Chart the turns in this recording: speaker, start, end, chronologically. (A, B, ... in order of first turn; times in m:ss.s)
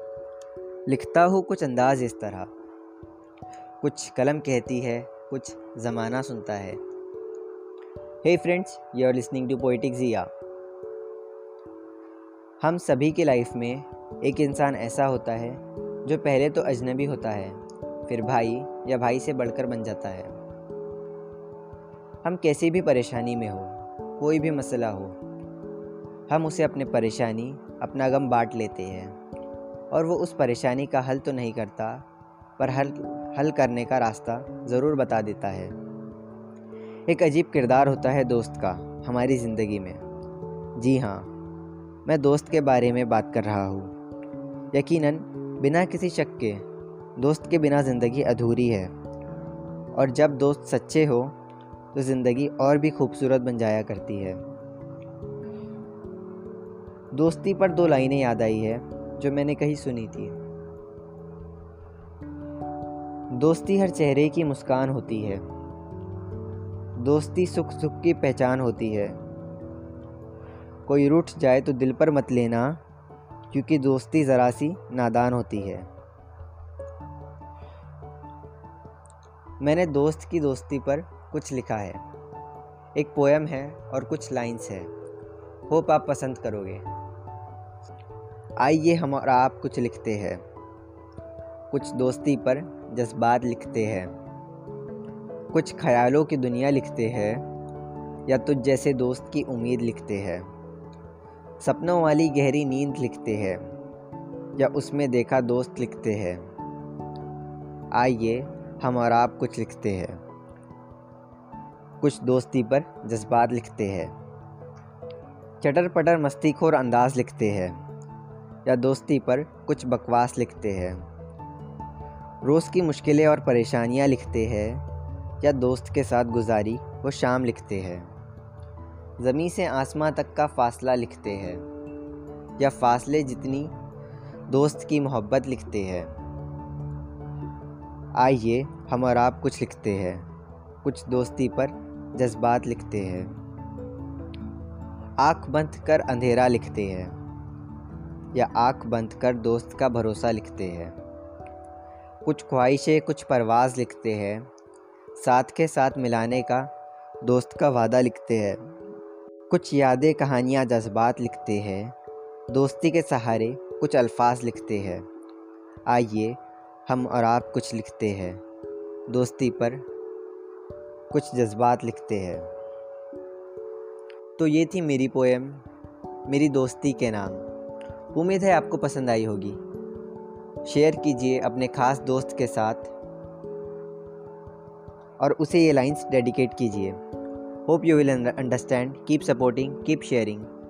0:00.8-0:02.5 A
0:03.8-0:06.8 A
0:08.2-0:10.3 A
0:12.6-0:20.4 A
0:22.2-0:25.2 A
0:26.3-0:29.2 A
0:29.9-0:32.0 A
0:32.6-0:35.7 A
0:37.1-0:40.0 A
0:40.8-0:41.3 A
0:42.0-0:43.9 A
0:44.7-0:46.6 A
0:47.2-0:48.9 A
0:49.9-0:51.3 A
0:51.9-0:54.4 A
0:57.1-1:00.4 A
1:03.3-1:05.4 A
1:07.0-1:09.2 A
1:10.8-1:12.8 A
1:13.5-1:15.9 A
1:19.6-1:22.0 A
1:22.9-1:24.9 A
1:25.7-1:26.9 A
1:28.6-1:30.4 A
1:31.7-1:34.1 A
1:35.5-1:37.4 A
1:38.3-1:40.5 A
1:41.6-1:43.6 A
1:44.6-1:46.4 A
1:47.9-1:50.2 A
1:52.0-1:54.1 A
1:55.6-1:57.8 A
1:58.6-2:01.0 A
2:02.4-2:04.8 A
2:05.4-2:08.1 A
2:09.2-2:11.6 A
2:12.6-2:13.7 A
2:14.5-2:16.1 A
2:18.1-2:20.2 A
2:20.8-2:23.3 A
2:25.2-2:27.2 A
2:28.3-2:31.0 A
2:32.2-2:34.4 A
2:35.2-2:36.7 A
2:37.2-2:38.7 A
2:39.5-2:41.9 A
2:42.5-2:45.0 A
2:45.8-2:48.4 A
2:49.1-2:49.8 A
2:51.1-2:52.5 A
2:54.4-2:55.6 A
2:56.3-2:57.4 A
2:58.1-2:59.6 A
3:00.6-3:02.9 A
3:05.2-3:07.0 A
3:07.6-3:10.5 A